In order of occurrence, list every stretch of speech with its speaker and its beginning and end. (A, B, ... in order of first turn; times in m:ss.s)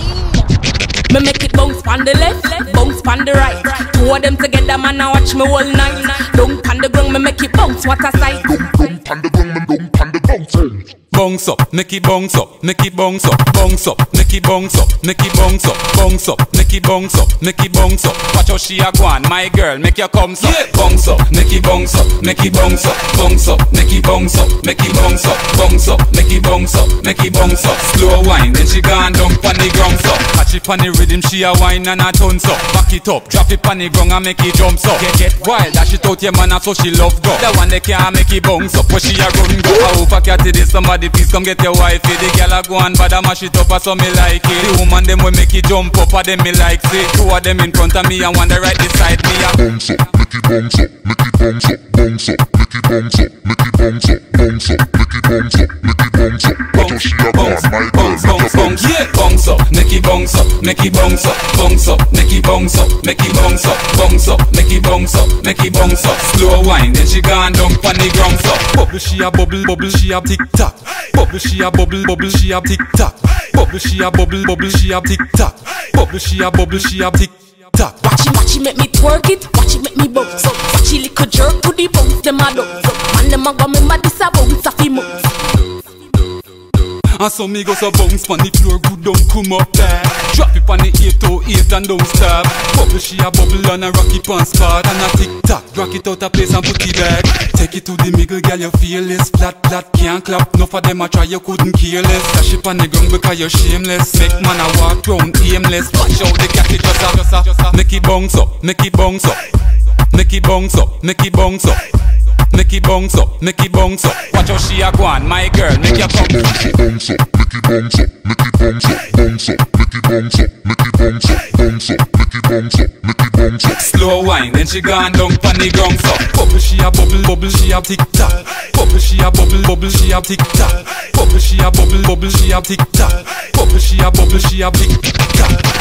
0:01.1-0:08.9 A
0:08.4-0:10.9 B
0:11.1-0:49.6 C
0:49.7-0:59.0 B
0:56.7-1:18.0 C
1:18.0-1:25.1 A
1:27.2-1:49.5 C
1:50.1-1:51.9 C
1:52.5-1:56.8 C
1:57.1-2:03.7 B
2:03.8-2:15.6 C